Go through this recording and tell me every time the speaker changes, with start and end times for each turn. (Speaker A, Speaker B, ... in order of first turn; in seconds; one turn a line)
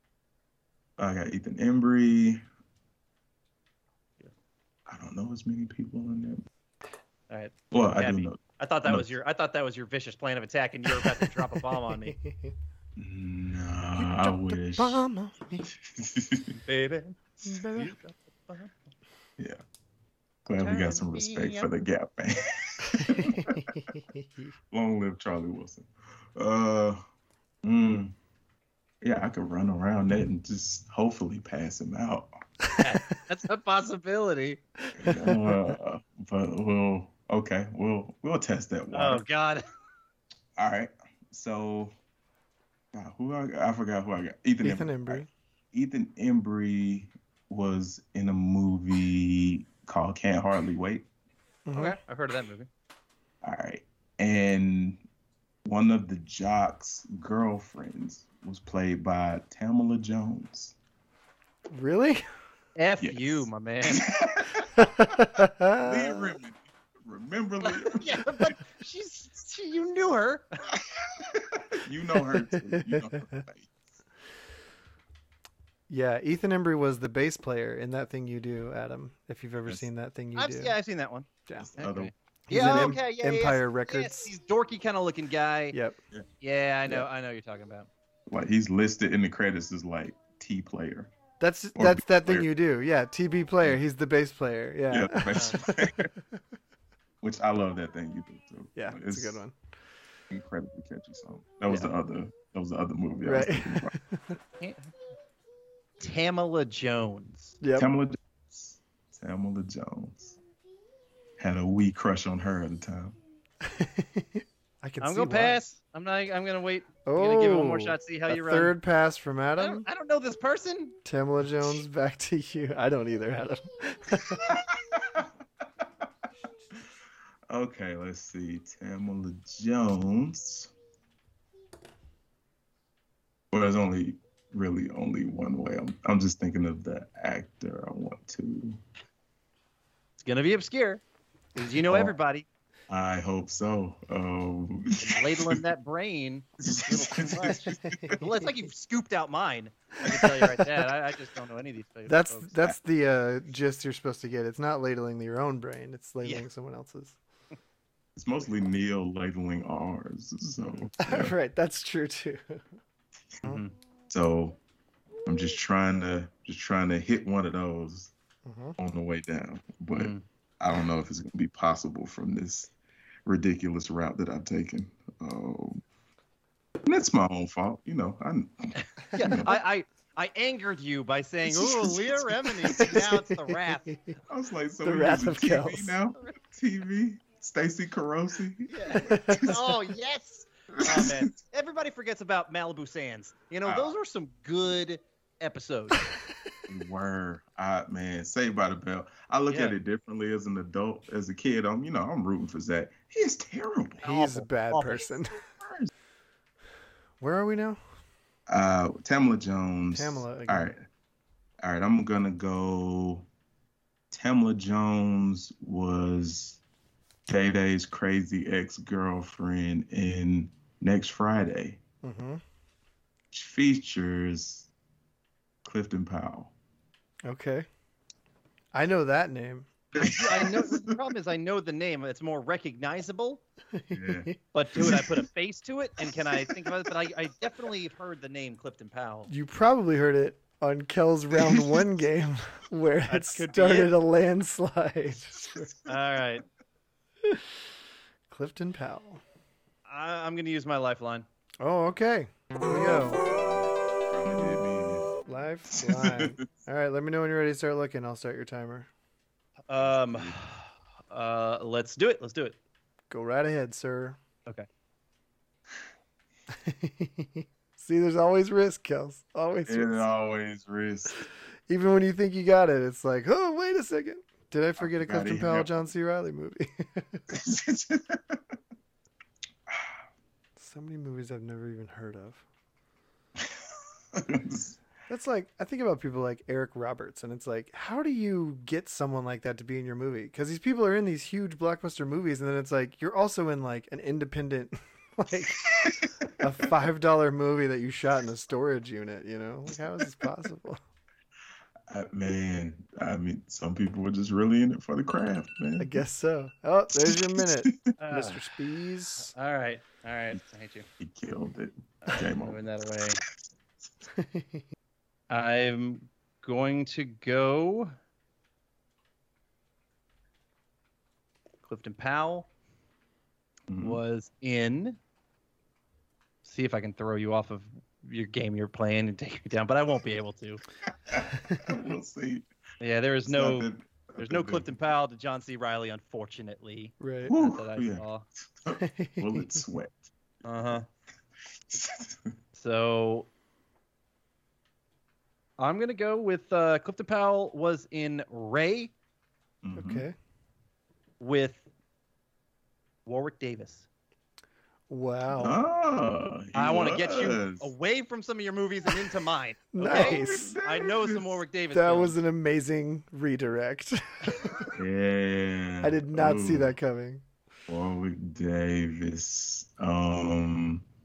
Speaker A: 1.0-2.4
Speaker A: 4.9-6.4
Speaker B: 7.3-12.2
Speaker A: 7.7-9.1
Speaker C: 11.0-12.5
Speaker A: 13.0-15.0
Speaker C: 14.0-15.7
Speaker A: 15.6-16.6
Speaker B: 16.7-18.7
Speaker C: 17.4-17.9
Speaker A: 20.4-23.6
Speaker B: 20.6-21.7
Speaker C: 23.0-24.4
Speaker A: 24.7-27.0
Speaker A: 27.6-28.1
Speaker A: 29.0-32.3
Speaker B: 32.8-34.6
Speaker A: 34.9-39.2
Speaker C: 35.0-35.6
Speaker B: 38.9-39.6
Speaker A: 40.6-41.9
Speaker A: 42.9-51.1
Speaker C: 44.6-45.3
Speaker C: 51.6-52.0
Speaker B: 51.7-52.7
Speaker A: 53.4-55.0
Speaker A: 55.6-60.8
Speaker C: 61.7-62.2
Speaker B: 62.8-64.0
Speaker A: 63.0-64.8
Speaker C: 64.8-66.3
Speaker A: 65.8-68.6
Speaker B: 67.6-70.5
Speaker A: 70.7-73.7
Speaker C: 72.3-73.4
Speaker C: 75.9-80.7
Speaker B: 80.3-85.8
Speaker A: 81.6-82.1
Speaker C: 82.5-84.3
Speaker C: 85.7-86.0
Speaker B: 86.4-87.9
Speaker A: 88.3-91.1
Speaker C: 91.4-95.9
Speaker A: 91.7-92.5
Speaker A: 94.9-96.1
Speaker B: 95.3-95.6
Speaker A: 97.2-99.4
Speaker C: 98.8-99.5
Speaker A: 100.3-103.9
Speaker C: 103.2-104.4
Speaker B: 104.6-104.9
Speaker B: 106.0-107.6
Speaker C: 107.6-107.9
Speaker A: 107.8-110.4
Speaker A: 111.4-113.2
Speaker C: 113.6-115.6
Speaker B: 115.0-118.7
Speaker C: 117.0-119.8
Speaker B: 119.6-121.0
Speaker C: 121.0-124.5
Speaker A: 124.3-125.3
Speaker A: 127.5-130.7
Speaker A: 133.5-138.8
Speaker B: 140.2-141.0
Speaker B: 141.6-142.4
Speaker A: 141.9-142.1
Speaker A: 142.9-145.6
Speaker B: 145.0-152.6
Speaker A: 146.6-148.2
Speaker C: 147.7-148.2
Speaker C: 152.1-157.2
Speaker A: 158.2-161.3
Speaker C: 161.0-162.7
Speaker B: 163.4-163.7
Speaker A: 164.1-164.6
Speaker A: 165.2-168.1
Speaker C: 168.4-168.8
Speaker A: 168.8-172.7
Speaker B: 169.9-170.2
Speaker A: 173.2-175.8
Speaker A: 176.8-179.6
Speaker B: 179.0-183.9
Speaker A: 181.4-183.1
Speaker C: 182.8-184.2
Speaker A: 184.3-189.8
Speaker C: 184.8-185.9
Speaker B: 188.7-196.0
Speaker C: 189.0-189.6
Speaker A: 190.7-191.3
Speaker A: 193.6-193.9
Speaker A: 196.7-204.0
Speaker B: 199.5-199.7
Speaker B: 204.0-205.1
Speaker C: 204.0-205.4
Speaker A: 205.5-205.9
Speaker C: 207.2-207.8
Speaker A: 208.5-210.8
Speaker C: 209.9-210.7
Speaker A: 211.6-213.3
Speaker A: 214.1-216.6
Speaker A: 217.3-221.8
Speaker C: 222.0-222.4
Speaker A: 223.3-224.7
Speaker A: 225.6-226.5
Speaker C: 227.2-227.7
Speaker C: 228.7-229.7
Speaker A: 229.9-231.0
Speaker B: 230.0-233.4
Speaker C: 233.7-234.4
Speaker A: 233.9-235.1
Speaker B: 234.5-239.3
Speaker C: 239.3-245.7
Speaker B: 243.1-243.9
Speaker A: 245.3-246.0
Speaker B: 245.9-246.4
Speaker C: 247.2-247.5
Speaker C: 248.3-249.2
Speaker B: 249.8-251.2
Speaker C: 251.6-253.2
Speaker A: 253.1-255.2
Speaker C: 255.2-258.9
Speaker A: 255.7-256.5
Speaker B: 259.7-262.6
Speaker A: 259.8-260.4
Speaker C: 263.1-264.2
Speaker C: 266.5-270.0
Speaker A: 269.6-271.2
Speaker C: 271.7-277.2
Speaker A: 274.8-275.7
Speaker A: 277.3-278.4
Speaker C: 280.6-282.4
Speaker A: 284.1-284.8
Speaker C: 285.1-300.8
Speaker A: 295.7-296.3
Speaker A: 301.9-305.9
Speaker C: 305.8-309.3
Speaker A: 307.1-307.8
Speaker B: 308.0-308.4
Speaker B: 309.2-310.9
Speaker A: 311.0-312.6
Speaker B: 312.0-313.2
Speaker C: 314.1-314.6
Speaker B: 315.3-317.9
Speaker B: 321.7-322.5
Speaker A: 323.7-324.0
Speaker B: 323.8-325.0
Speaker B: 326.4-330.6
Speaker A: 330.9-332.5
Speaker B: 332.8-338.2
Speaker A: 333.2-334.7
Speaker C: 337.0-337.3
Speaker A: 337.2-340.1
Speaker C: 338.8-339.6
Speaker B: 340.4-340.9
Speaker A: 341.7-342.3
Speaker B: 342.6-343.3
Speaker B: 345.6-348.9
Speaker A: 349.6-350.1
Speaker C: 349.7-350.1
Speaker B: 351.2-351.6
Speaker B: 353.1-353.9
Speaker C: 354.9-355.6
Speaker A: 355.4-357.7
Speaker B: 356.5-362.1
Speaker C: 359.7-360.6
Speaker A: 359.8-361.4
Speaker C: 361.7-364.7
Speaker A: 364.7-366.7
Speaker C: 365.8-367.2
Speaker A: 367.7-370.8